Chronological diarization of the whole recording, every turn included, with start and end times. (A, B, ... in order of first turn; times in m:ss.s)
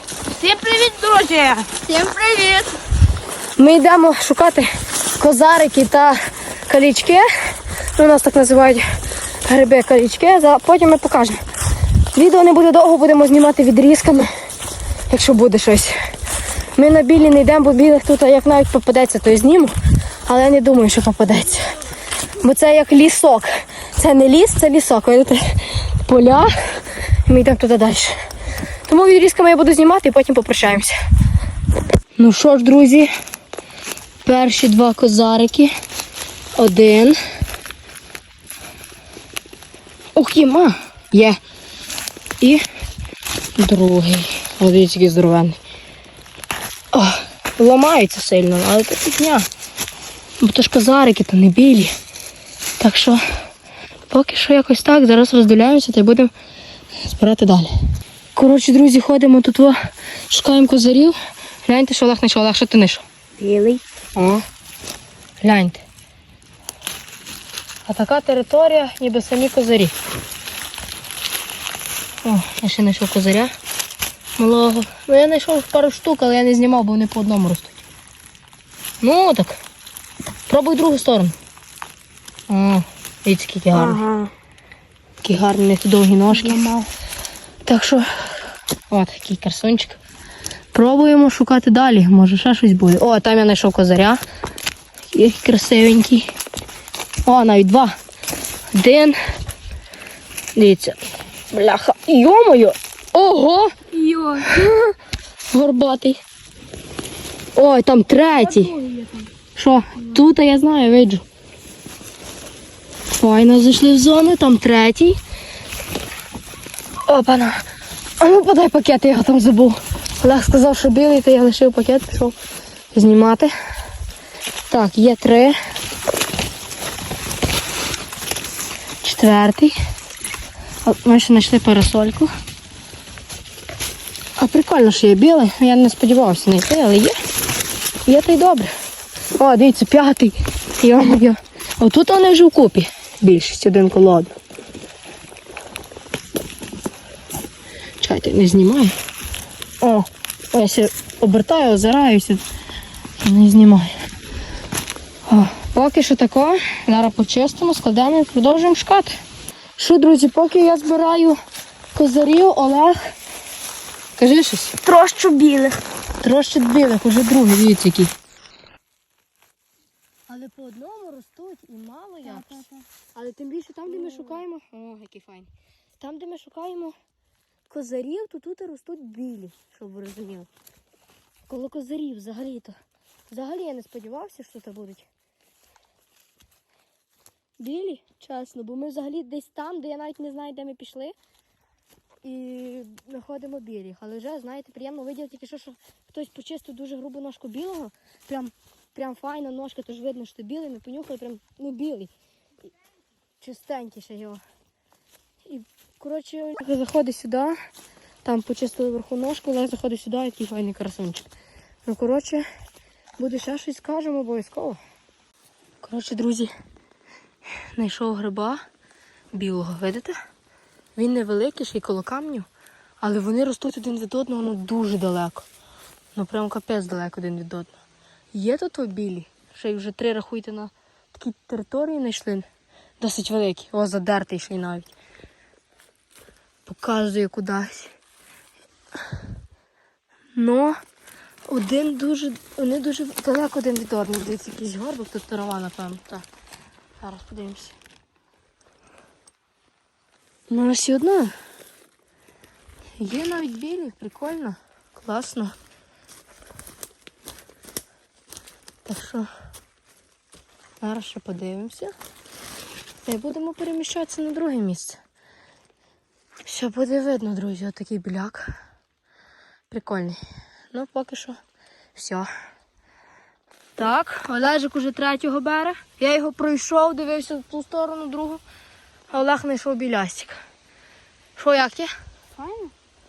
0:00.4-0:02.6 A
0:02.0-0:02.6 B
0:03.6-0:04.7 B
0:05.2-0:08.8 B
0:09.4-0:11.4 B
0:12.1-0:14.3 B
0:15.1-0:16.0 B
0:16.7-0:21.8 B
0:22.4-0:28.2 B
0:28.8-0:30.9 B
0:32.2-0:33.1 B
0:34.2-0:35.7 B
0:36.5-0:37.2 B
0:40.1-0:41.4 B
0:43.6-0:45.6 B
0:46.9-0:49.5 B
0:50.4-0:51.9 B
0:52.8-0:53.2 B
0:54.1-0:56.3 B
0:57.0-0:57.7 B
0:58.3-1:03.0 B
1:03.4-1:03.8 A
1:04.1-1:04.4 B
1:05.4-1:05.8 B
1:07.8-1:09.9 B
1:12.2-1:13.5 B
1:14.4-1:17.8 B
1:19.0-1:19.6 B
1:20.5-1:21.3 B
1:22.5-1:24.0 B
1:23.7-1:24.3 A
1:25.2-1:26.8 B
1:26.3-1:26.8 A
1:27.6-1:28.3 B
1:28.9-1:30.0 B
1:30.7-1:34.2 B
1:35.1-1:36.3 B
1:37.2-1:38.0 B
1:38.7-1:39.2 B
1:40.5-1:44.9 B
1:44.1-1:44.7 A
1:45.5-1:46.2 B
1:47.5-1:48.7 B
1:48.5-1:49.3 A
1:49.5-1:51.2 B
1:53.1-1:55.2 B
1:57.0-1:57.7 B
1:58.2-2:02.3 B
2:02.9-2:03.5 B
2:04.7-2:05.6 B
2:09.0-2:09.7 B
2:10.8-2:12.3 B
2:14.4-2:17.2 B
2:18.0-2:18.7 B
2:19.4-2:24.3 B
2:28.0-2:29.0 B
2:29.8-2:32.4 B
2:33.2-2:33.9 B
2:35.2-2:39.2 B
2:39.8-2:41.4 B
2:41.9-2:43.1 B
2:44.2-2:48.1 B
2:50.3-2:56.9 B
2:52.4-2:52.7 A
2:57.7-3:00.5 B
3:01.5-3:02.7 B
3:03.3-3:05.0 B
3:07.6-3:11.1 B
3:12.2-3:22.1 B
3:23.4-3:24.4 B
3:25.4-3:27.6 B
3:28.2-3:31.3 B
3:31.8-3:32.4 B
3:33.2-3:34.8 B
3:35.8-3:36.5 B
3:37.6-3:38.6 B
3:39.3-3:40.2 B
3:41.0-3:42.5 B
3:43.0-3:45.5 B
3:46.1-3:47.8 B
3:48.3-3:52.5 B
3:53.0-3:54.9 B
3:56.6-3:58.0 B
4:00.3-4:00.7 B
4:01.5-4:06.2 B
4:07.0-4:07.8 B
4:10.5-4:11.4 B
4:13.0-4:15.6 B
4:18.8-4:19.3 B
4:20.8-4:21.9 B
4:23.0-4:25.0 B
4:26.4-4:28.5 B
4:29.7-4:30.2 B
4:30.7-4:31.4 B
4:31.9-4:32.3 B
4:33.8-4:38.4 B
4:39.1-4:40.4 B
4:41.4-4:42.7 B